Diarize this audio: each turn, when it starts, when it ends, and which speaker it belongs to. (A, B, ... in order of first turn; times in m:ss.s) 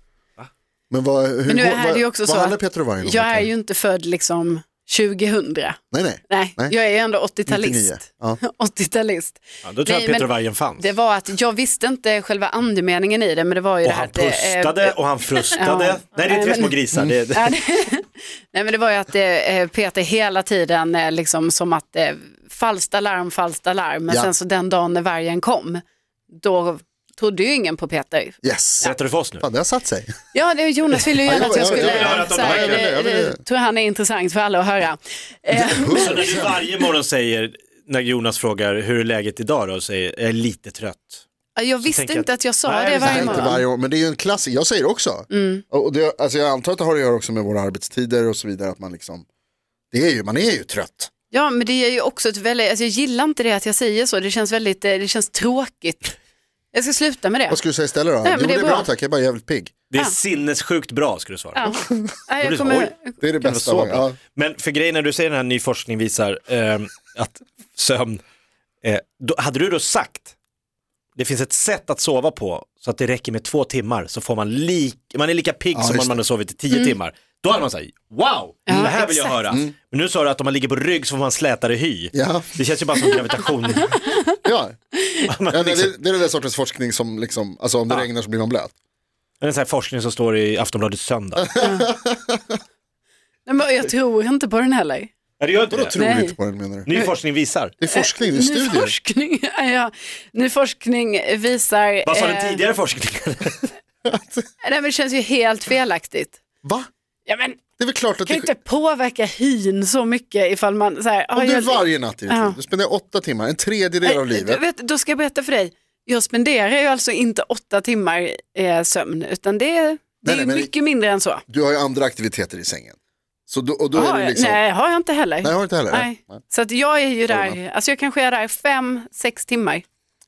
0:00.9-0:03.5 A
0:01.4-0:05.8 B
0:05.9-0:06.7 A
0:06.3-0:15.0 B
0:07.5-0:08.4 A
0:09.6-0:10.9 C
0:13.8-0:17.5 C
0:15.5-0:16.8 B
0:17.3-0:28.9 B
0:28.4-0:30.1 A
0:28.8-0:29.4 C
0:30.3-0:36.4 B
0:31.2-0:33.4 A
0:31.5-0:32.9 C
0:35.5-0:36.6 A
0:35.7-0:41.2 C
0:41.5-0:43.6 B
0:41.8-0:43.5 C
0:43.0-0:49.2 A
0:45.3-0:45.6 B
0:49.9-0:51.1 A
0:51.3-0:56.1 B
0:56.7-0:57.6 B
0:57.5-0:59.8 A
0:58.2-0:58.9 B
0:59.9-1:08.2 C
1:01.5-1:03.2 B
1:03.2-1:04.2 A
1:08.8-1:10.3 C
1:11.2-1:24.0 C
1:15.7-1:16.2 A
1:18.7-1:19.4 B
1:22.1-1:23.2 A
1:23.9-1:24.2 B
1:24.4-1:24.7 A
1:25.3-1:25.9 C
1:25.5-1:28.7 A
1:29.4-1:31.6 C
1:31.5-1:32.5 A
1:31.6-1:31.9 B
1:33.4-1:35.1 B
1:35.4-1:36.0 C
1:35.7-1:36.9 A
1:36.0-1:36.3 B
1:36.8-1:37.7 C
1:37.8-1:38.9 A
1:37.9-1:42.6 B
1:42.0-1:43.7 C
1:44.0-1:44.4 A
1:44.6-1:46.4 B
1:46.6-1:46.9 A
1:47.2-1:47.6 B
1:47.8-1:48.5 A
1:48.2-1:52.6 B
1:51.3-1:54.6 A
1:54.0-2:01.4 B
2:00.2-2:00.7 A
2:01.5-2:03.0 A
2:03.5-2:04.6 A
2:03.9-2:09.8 B
2:05.4-2:06.4 A
2:07.3-2:07.6 A